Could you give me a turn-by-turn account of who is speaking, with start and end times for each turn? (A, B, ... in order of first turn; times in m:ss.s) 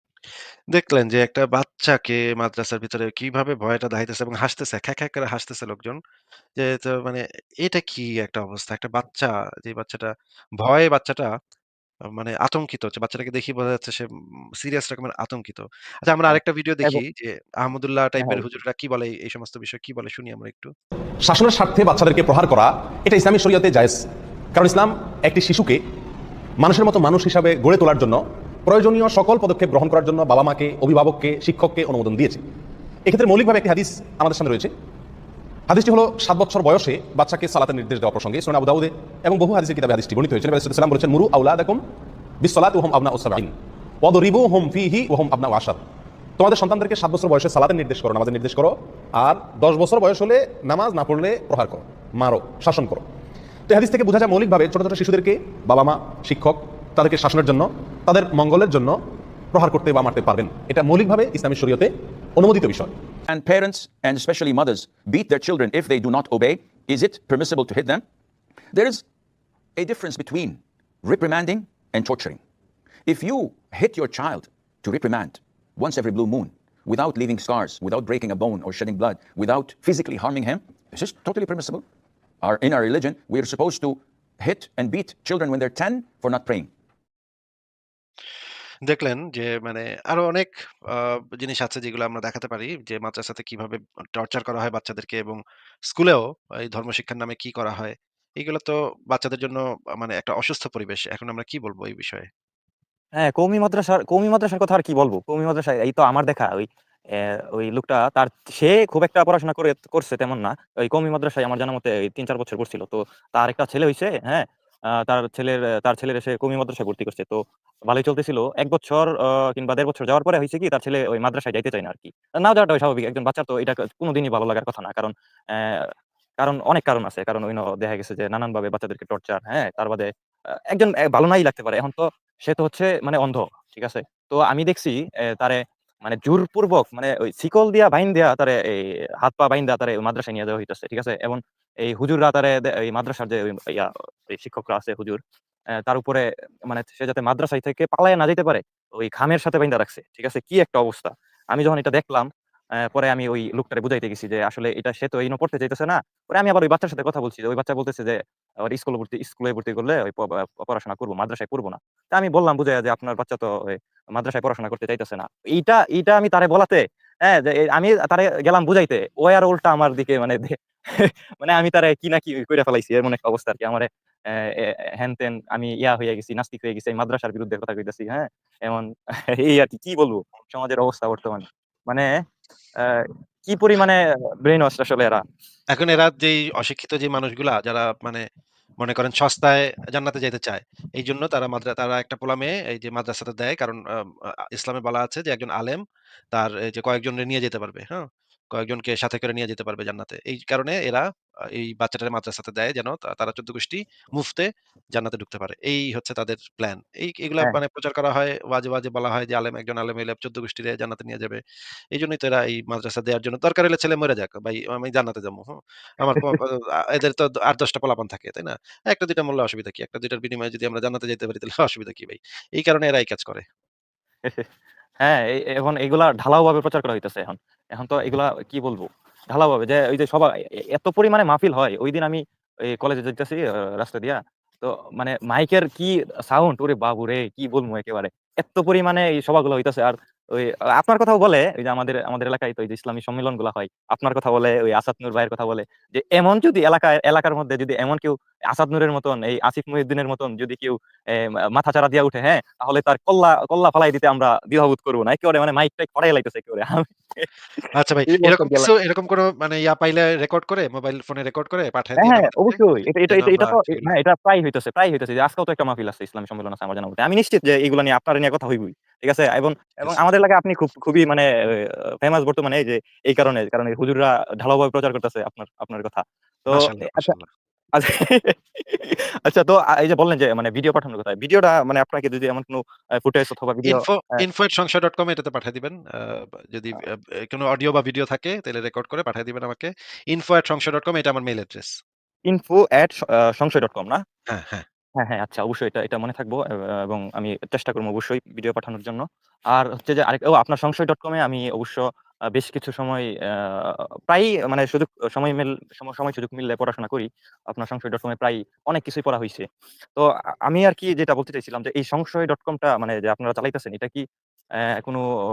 0:00.7-0:06.0 A
0:06.6-0:11.3 A
0:12.1-0:14.1 A
0:14.6-0:20.7 A
0:16.3-0:17.0 B
0:21.2-0:24.0 C
0:24.5-0:25.8 C
0:26.6-0:32.4 C
0:33.0-0:34.7 C
0:35.7-0:41.8 C
0:42.4-0:45.8 C
0:46.4-0:53.0 C
0:53.7-0:59.0 C
0:59.5-1:02.9 C
1:03.3-1:08.0 D
1:08.7-1:09.0 D
1:09.8-1:12.4 D
1:13.0-1:21.8 D
1:22.4-1:26.7 D
1:28.8-1:35.4 A
1:35.9-1:42.3 A
1:43.2-1:46.7 B
1:47.6-1:54.4 B
1:55.0-2:05.8 B
2:06.4-2:10.1 B
2:10.7-2:25.2 B
2:25.8-2:32.3 B
2:32.9-2:38.2 B
2:38.7-3:02.1 B
3:02.8-3:05.2 B
3:05.7-3:08.2 A
3:08.8-3:13.8 A
3:14.5-3:15.8 A
3:16.3-3:31.4 A
3:31.9-3:43.4 A
3:45.0-4:10.7 B
4:11.6-4:18.7 B
4:17.7-4:23.9 A
4:22.0-4:37.1 B
4:36.5-4:37.3 A
4:37.8-4:44.2 B
4:43.6-4:51.7 A
4:52.3-4:54.0 B
4:54.3-4:54.6 A
4:55.0-5:01.8 B
5:02.3-5:09.4 B
5:10.0-5:14.0 B